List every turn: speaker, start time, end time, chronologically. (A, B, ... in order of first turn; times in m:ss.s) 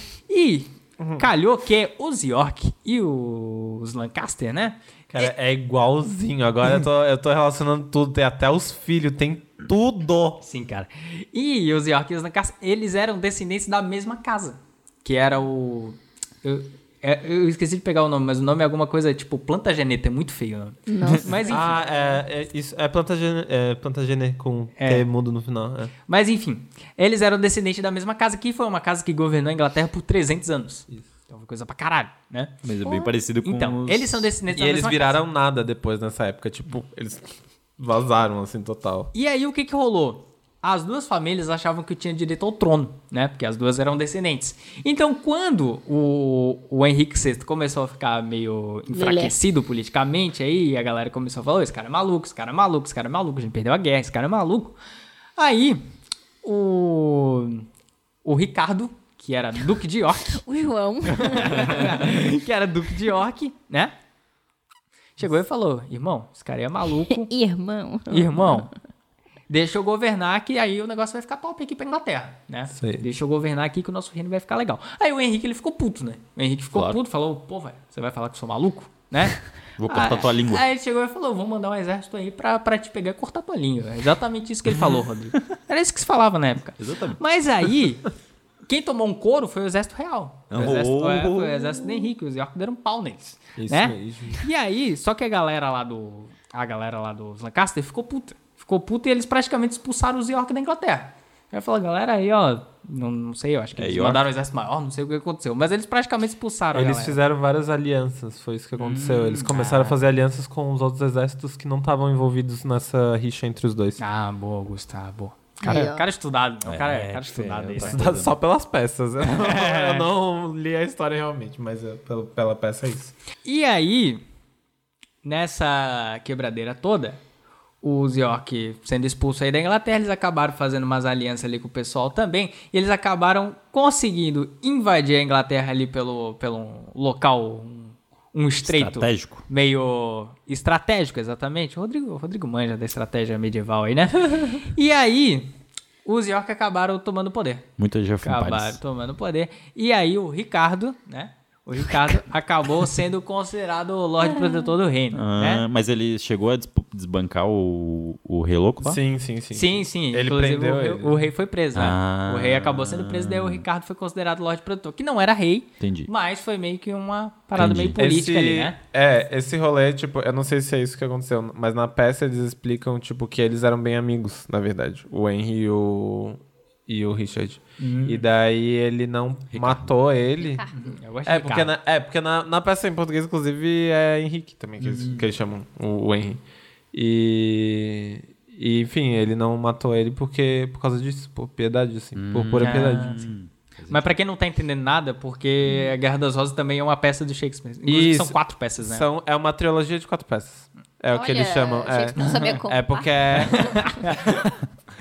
0:00.3-0:05.3 A
0:01.0-0:01.3 B
0:05.1-0:10.4 B
0:10.4-0:21.9 A
0:20.9-0:21.7 C
0:21.5-0:25.9 B
0:24.8-0:25.0 A
0:26.1-0:32.5 A
0:32.6-0:34.3 D
0:32.8-0:33.1 C
0:33.4-0:35.2 A
0:34.5-0:39.1 B
0:39.1-0:54.8 A
0:48.9-0:49.3 C
0:55.4-0:55.9 A
0:56.4-0:57.6 A
0:58.2-1:00.4 A
1:00.3-1:02.0 C
1:01.0-1:03.9 A
1:05.2-1:07.3 A
1:07.1-1:08.6 C
1:08.1-1:08.7 A
1:09.5-1:28.1 A
1:12.7-1:13.0 B
1:19.8-1:20.6 D
1:26.8-1:27.2 D
1:28.7-1:47.2 A
1:30.5-1:32.1 D
1:33.6-1:34.4 B
1:43.8-1:44.2 D
1:46.7-1:54.0 B
1:48.8-1:50.0 A
1:54.0-1:58.0 A
1:55.6-1:56.0 C
1:56.6-1:58.4 D
1:57.8-2:03.1 B
1:59.2-2:00.1 A
2:03.4-2:04.2 A
2:05.2-2:07.2 A
2:07.8-2:25.5 A
2:18.6-2:19.4 D
2:26.0-2:27.7 A
2:27.8-2:28.8 D
2:28.2-2:35.6 A
2:35.1-2:39.0 D
2:38.8-2:41.2 B
2:39.5-2:48.8 A
2:41.7-2:43.6 D
2:45.8-2:46.1 D
2:47.6-2:48.0 D
2:48.0-3:00.6 B
2:57.8-2:58.2 A
2:59.5-2:59.9 D
3:00.4-3:00.8 C
3:00.7-3:01.7 A
3:01.2-3:06.4 B
3:06.9-3:13.2 B
3:12.1-3:14.1 D
3:12.6-3:13.3 A
3:13.9-3:19.0 A
3:17.9-3:23.9 B
3:21.1-3:24.0 C
3:23.5-3:24.5 A